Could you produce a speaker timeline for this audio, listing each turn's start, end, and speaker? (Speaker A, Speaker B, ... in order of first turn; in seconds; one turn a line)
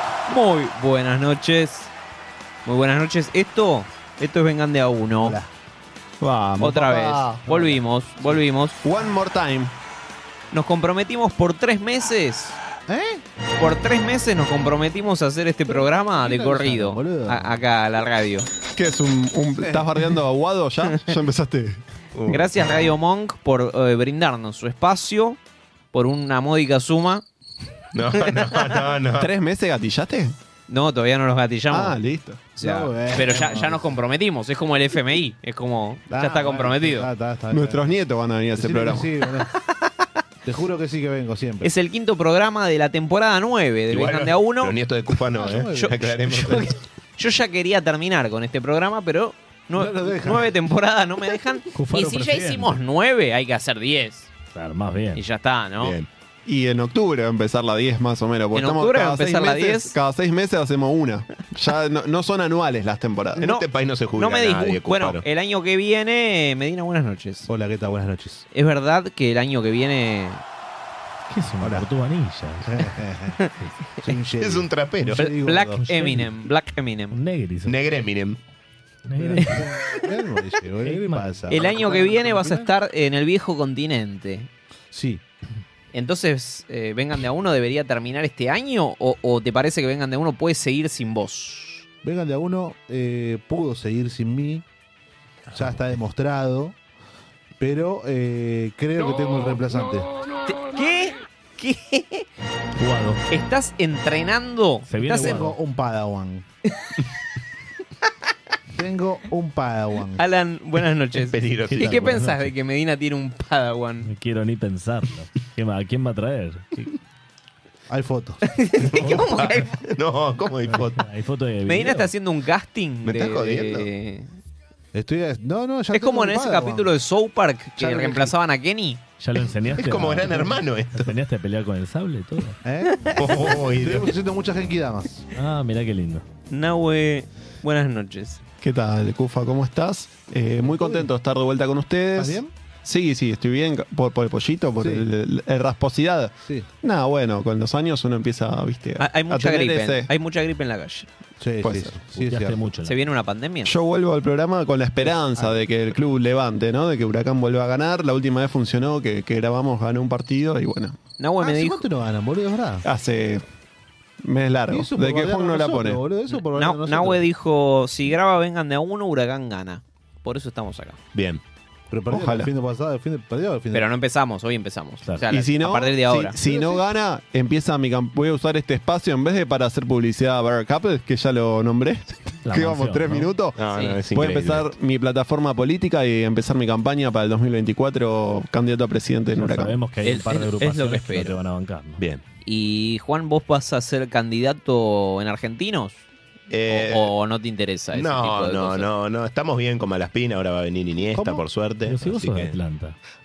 Speaker A: 0.3-1.9
Speaker A: 2.7-5.4
Speaker B: 5.2-5.5
Speaker C: 6.2-7.2
Speaker A: 6.6-8.8
Speaker B: 6.9-7.8
Speaker C: 8.8-9.7
Speaker A: 10.5-12.6
Speaker B: 12.9-13.2
Speaker A: 13.6-18.5
Speaker B: 15.7-17.6
Speaker C: 18.8-21.8
Speaker B: 19.6-19.9
Speaker D: 22.1-22.6
Speaker A: 22.3-25.4
Speaker A: 25.9-27.2
Speaker D: 27.9-29.3
Speaker C: 29.2-30.4
Speaker A: 30.7-32.0
Speaker C: 31.7-32.4
Speaker A: 32.6-37.1
Speaker B: 32.6-33.9
Speaker B: 36.1-38.0
Speaker C: 37.5-39.1
Speaker B: 38.5-39.5
Speaker B: 40.4-41.7
Speaker A: 41.6-44.7
Speaker D: 43.9-46.7
Speaker B: 45.4-46.0
Speaker A: 45.8-54.3
Speaker B: 49.8-50.5
Speaker E: 51.7-52.8
Speaker E: 54.5-55.2
Speaker A: 55.1-56.0
Speaker D: 55.8-56.1
Speaker C: 56.5-63.5
Speaker A: 58.5-60.0
Speaker A: 63.4-67.5
Speaker D: 63.4-65.2
Speaker B: 67.5-68.5
Speaker A: 68.5-70.4
Speaker E: 71.3-73.0
Speaker B: 71.6-71.9
Speaker B: 72.7-73.4
Speaker B: 74.0-76.0
Speaker D: 74.4-75.2
Speaker A: 75.2-77.2
Speaker E: 75.8-76.3
Speaker E: 77.1-77.8
Speaker D: 77.7-78.4
Speaker E: 79.1-79.8
Speaker B: 79.2-82.7
Speaker E: 80.8-81.5
Speaker A: 81.5-84.5
Speaker B: 84.9-85.2
Speaker A: 85.9-91.9
Speaker B: 92.0-94.6
Speaker B: 95.5-96.8
Speaker B: 97.6-100.1
Speaker A: 100.5-102.3
Speaker E: 102.8-103.2
Speaker A: 103.3-105.4
Speaker E: 104.9-105.6
Speaker B: 105.0-106.5
Speaker B: 108.7-110.2
Speaker A: 110.2-114.1
Speaker D: 111.2-112.2
Speaker E: 111.8-112.5
Speaker E: 114.0-116.9
Speaker B: 117.9-118.4
Speaker A: 118.5-119.7
Speaker D: 118.8-121.0
Speaker E: 119.0-119.5
Speaker E: 120.7-122.1
Speaker A: 121.7-124.3
Speaker D: 123.0-123.9
Speaker B: 124.9-126.9
Speaker A: 125.9-129.0
Speaker B: 127.8-128.3
Speaker E: 129.2-132.6
Speaker D: 129.8-131.1
Speaker B: 132.6-135.2
Speaker D: 133.2-134.1
Speaker E: 135.3-136.2
Speaker A: 136.5-138.4
Speaker C: 138.6-150.1
Speaker B: 140.6-141.1
Speaker B: 142.2-142.5
Speaker B: 144.8-145.1
Speaker A: 149.0-151.1
Speaker B: 151.4-152.7
Speaker C: 151.6-152.0
Speaker E: 152.2-152.9
Speaker A: 152.8-153.7
Speaker C: 153.7-161.0
Speaker B: 155.0-155.6
Speaker A: 161.2-161.8
Speaker B: 161.4-162.8
Speaker C: 162.8-163.4
Speaker C: 164.2-166.0
Speaker B: 164.7-167.2
Speaker A: 166.3-171.0
Speaker D: 171.1-171.4
Speaker B: 171.9-173.9
Speaker C: 172.1-172.5
Speaker A: 173.7-176.4
Speaker C: 175.3-183.6
Speaker B: 176.4-176.8
Speaker E: 182.4-183.3
Speaker D: 183.6-184.7
Speaker C: 184.1-189.8
Speaker E: 189.3-192.0
Speaker A: 190.0-191.3
Speaker D: 192.0-192.2
Speaker A: 192.4-196.1
Speaker D: 196.5-197.1
Speaker A: 196.7-198.9
Speaker D: 197.9-202.6
Speaker B: 201.2-201.4
Speaker E: 201.9-203.0